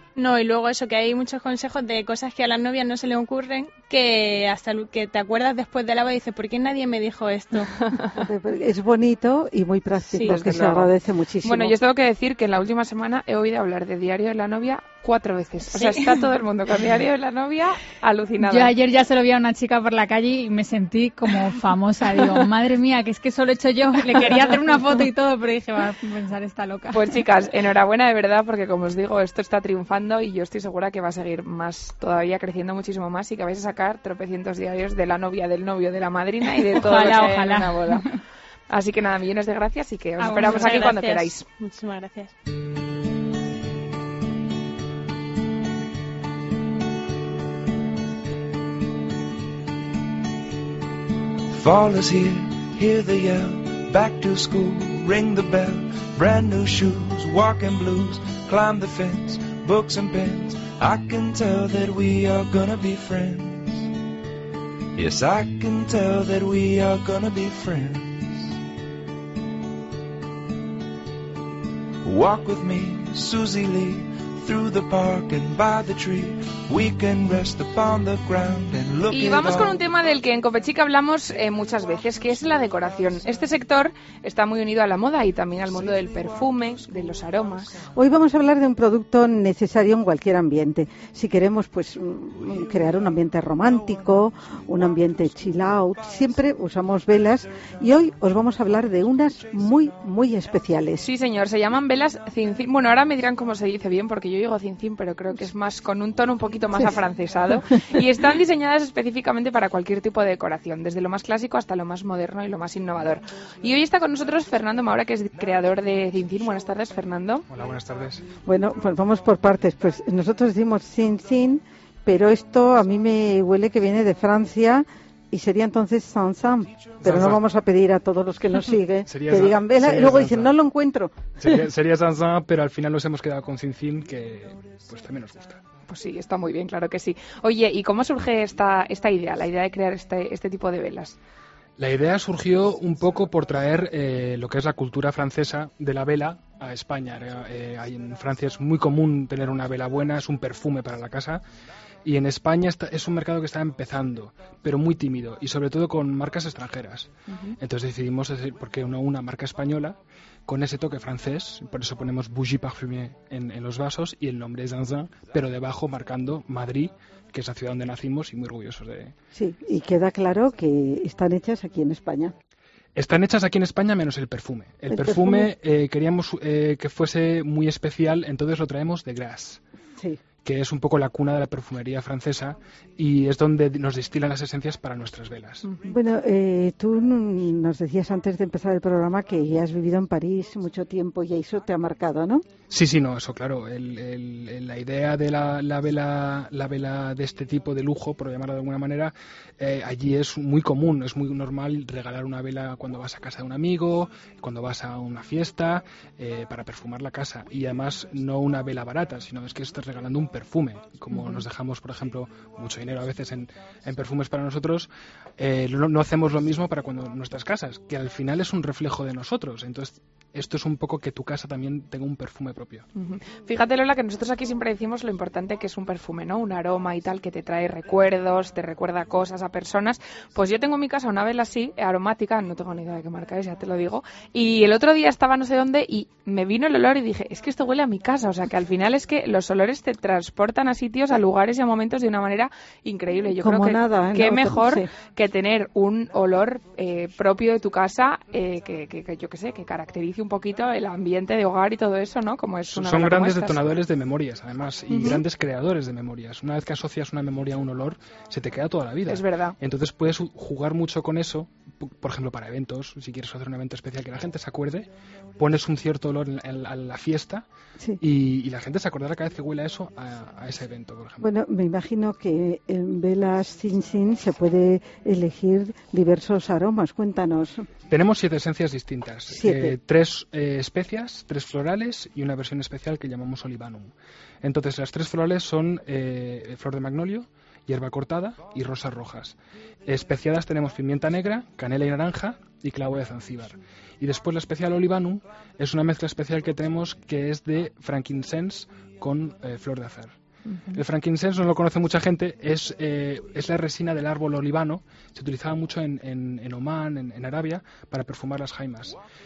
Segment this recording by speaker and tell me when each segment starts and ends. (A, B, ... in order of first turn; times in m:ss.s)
0:00.2-0:07.7 A
0:07.8-0:08.3 B
0:08.2-0:11.7 C
0:10.2-0:10.9 B
0:11.4-0:18.7 B
0:15.7-0:16.2 A
0:18.4-0:27.2 D
0:26.9-0:38.1 B
0:36.8-0:38.1 D
0:38.7-0:41.4 B
0:40.2-0:40.9 D
0:40.3-0:42.3 A
0:51.5-1:03.9 E
1:05.0-1:08.5 E
1:12.0-1:19.8 E
1:19.1-1:27.8 B
1:27.9-1:41.0 C
1:41.0-1:57.5 B
1:57.5-1:58.2 F
1:58.4-2:11.6 C
2:07.0-2:07.4 F
2:09.1-2:10.5 F
2:11.4-2:15.6 F
2:15.9-2:21.2 B
2:21.8-2:31.4 F
2:32.0-2:49.1 F
2:49.3-2:52.3 C
2:52.9-2:59.6 F
2:54.9-2:55.5 C
3:00.4-3:05.7 F
3:05.6-3:05.9 B
3:05.8-3:12.4 C
3:12.7-3:42.8 F
3:31.1-3:31.4 B
3:43.0-4:13.8 B
4:03.3-4:04.9 C
4:12.7-4:27.4 F
4:14.9-4:15.2 B
4:19.1-4:19.6 B
4:28.0-4:31.2 F
4:31.2-4:37.7 C
4:37.9-4:49.4 F
4:39.3-4:39.8 C
4:49.9-5:00.2 F
5:00.5-5:00.8 B
5:00.7-5:09.0 F